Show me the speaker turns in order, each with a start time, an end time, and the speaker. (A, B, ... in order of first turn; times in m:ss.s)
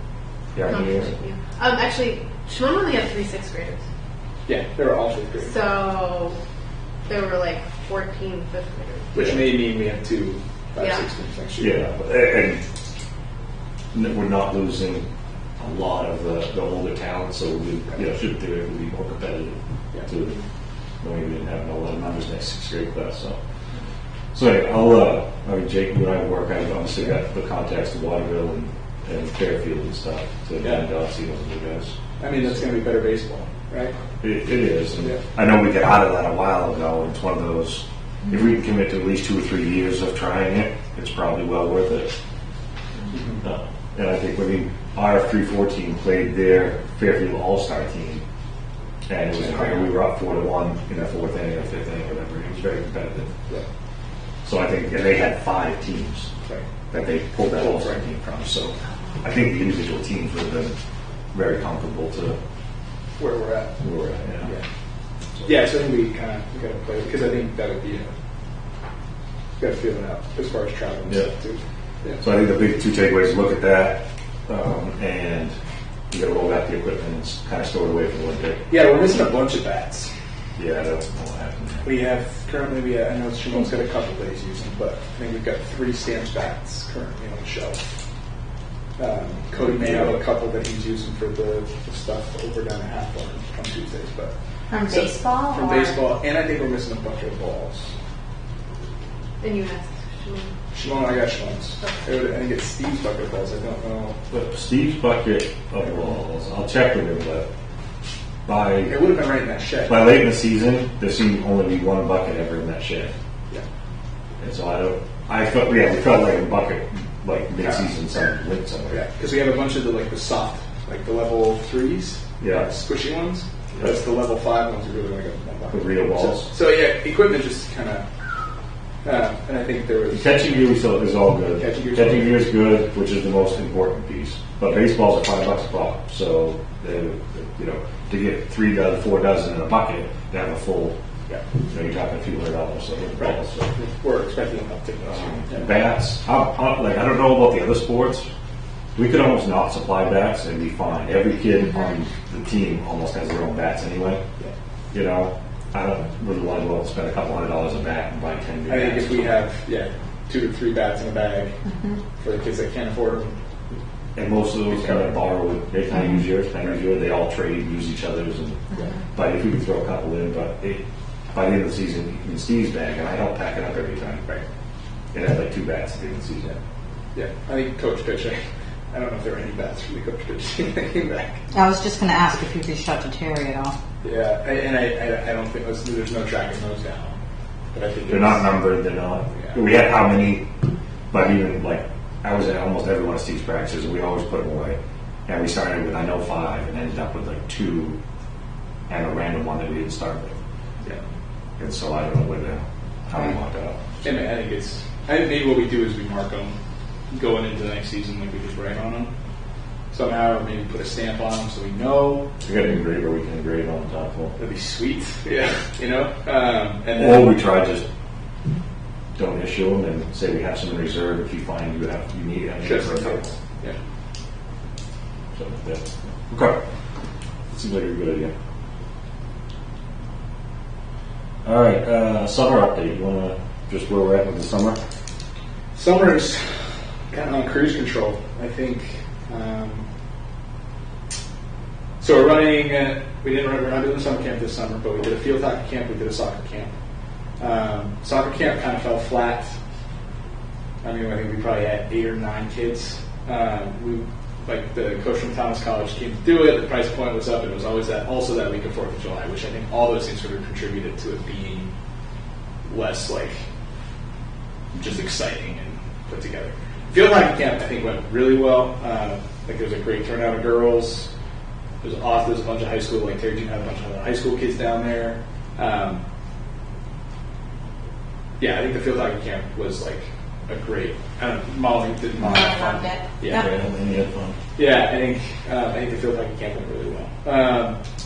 0:00.6-0:01.1 A
0:00.7-0:03.8 B
0:04.5-0:05.6 C
0:05.4-0:06.4 B
0:07.1-0:09.1 B
0:09.1-0:12.0 C
0:09.2-0:09.6 A
0:10.8-0:11.0 B
0:11.6-0:12.6 A
0:13.9-0:15.1 A
0:15.6-0:20.4 A
0:21.0-0:23.4 A
0:24.3-0:32.0 A
0:32.2-0:34.0 C
0:34.2-0:42.2 A
0:43.1-0:43.4 C
0:43.4-0:48.2 A
0:49.1-0:53.3 A
0:49.4-0:50.0 C
0:54.4-0:56.3 A
0:56.9-1:00.8 A
0:57.4-0:58.0 C
1:01.3-1:02.4 A
1:03.2-1:03.8 C
1:03.8-1:04.5 A
1:05.4-1:08.1 C
1:09.6-1:12.2 C
1:12.2-1:15.6 A
1:16.1-1:18.7 A
1:18.7-1:20.1 C
1:20.6-1:22.0 A
1:21.8-1:27.8 C
1:29.0-1:34.3 C
1:29.6-1:30.2 A
1:34.7-1:35.6 D
1:34.8-1:36.0 B
1:34.9-1:37.9 C
1:39.4-1:40.5 B
1:40.7-1:44.2 C
1:44.3-1:47.5 A
1:48.5-1:49.1 A
1:48.9-1:50.2 C
1:49.9-1:53.1 A
1:54.4-1:59.0 A
1:57.6-1:57.9 C
1:58.9-2:08.1 C
2:02.4-2:02.7 A
2:05.7-2:06.5 A
2:09.0-2:10.8 C
2:10.1-2:21.0 A
2:11.6-2:12.4 C
2:21.7-2:23.7 A
2:23.2-2:25.7 C
2:25.0-2:28.3 A
2:29.0-2:34.2 A
2:34.9-2:39.4 A
2:38.7-2:41.6 C
2:42.2-2:43.4 C
2:44.2-2:48.6 A
2:44.7-2:45.1 C
2:49.1-2:54.2 A
2:55.1-2:56.6 A
2:57.1-3:01.4 C
3:01.5-3:03.8 D
3:04.0-3:07.2 C
3:07.7-3:08.7 C
3:08.1-3:10.5 A
3:09.3-3:09.6 C
3:11.1-3:18.0 A
3:18.9-3:20.4 A
3:21.6-3:23.8 A
3:24.0-3:26.6 C
3:27.1-3:29.1 C
3:29.9-3:32.3 C
3:32.4-3:34.4 A
3:34.4-3:37.5 C
3:37.0-3:37.8 A
3:39.2-3:43.4 A
3:42.6-3:43.8 C
3:45.3-3:46.6 A
3:47.5-3:48.3 A
3:51.4-3:54.8 A
3:55.7-3:56.5 C
3:57.1-3:59.8 C
4:02.0-4:06.7 C
4:07.4-4:09.5 C
4:10.8-4:21.7 C
4:22.7-4:23.4 C
4:24.7-4:31.1 C
4:31.8-4:36.0 C
4:38.4-4:43.5 C
4:42.2-4:43.1 B
4:43.2-4:44.4 A
4:44.6-4:47.8 C